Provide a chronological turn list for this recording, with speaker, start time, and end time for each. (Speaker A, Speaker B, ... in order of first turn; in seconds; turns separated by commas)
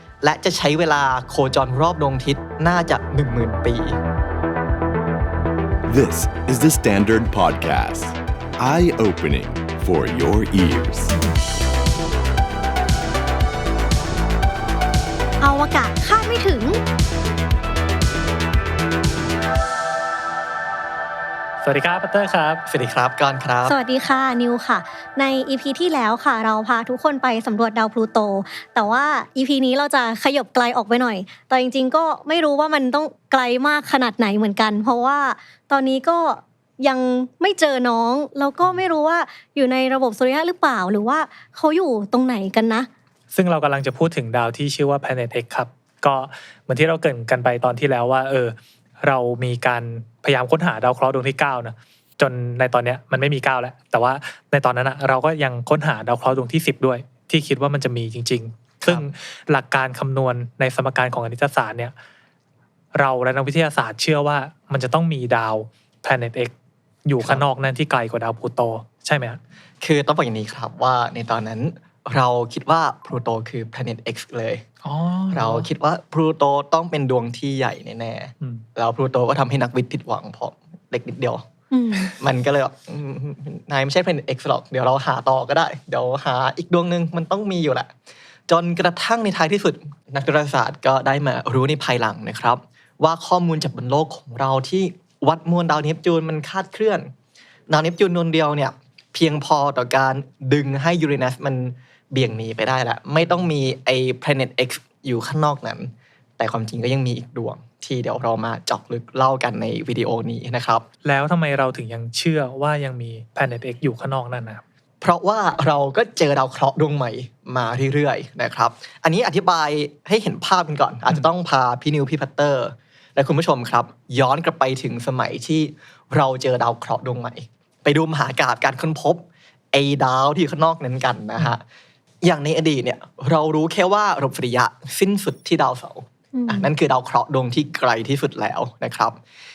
Speaker A: 0.2-4.0, Speaker B: 5.9-11.2, Speaker C: 15.4-16.8, Speaker D: 21.6-22.6, Speaker A: 22.7-23.8, Speaker C: 23.6-42.9, Speaker D: 43.3-61.9, Speaker A: 58.8-59.1, Speaker D: 63.0-66.5, Speaker D: 67.1-69.4, Speaker A: 69.8-74.7, Speaker D: 74.8-75.7, Speaker A: 75.3-81.4, Speaker C: 81.7-82.1, Speaker A: 82.2-87.9, Speaker A: 88.5-97.1, Speaker A: 97.7-110.9, Speaker D: 111.0-114.6, Speaker A: 115.0-131.6, Speaker A: 132.2-139.2, Speaker C: 136.3-136.7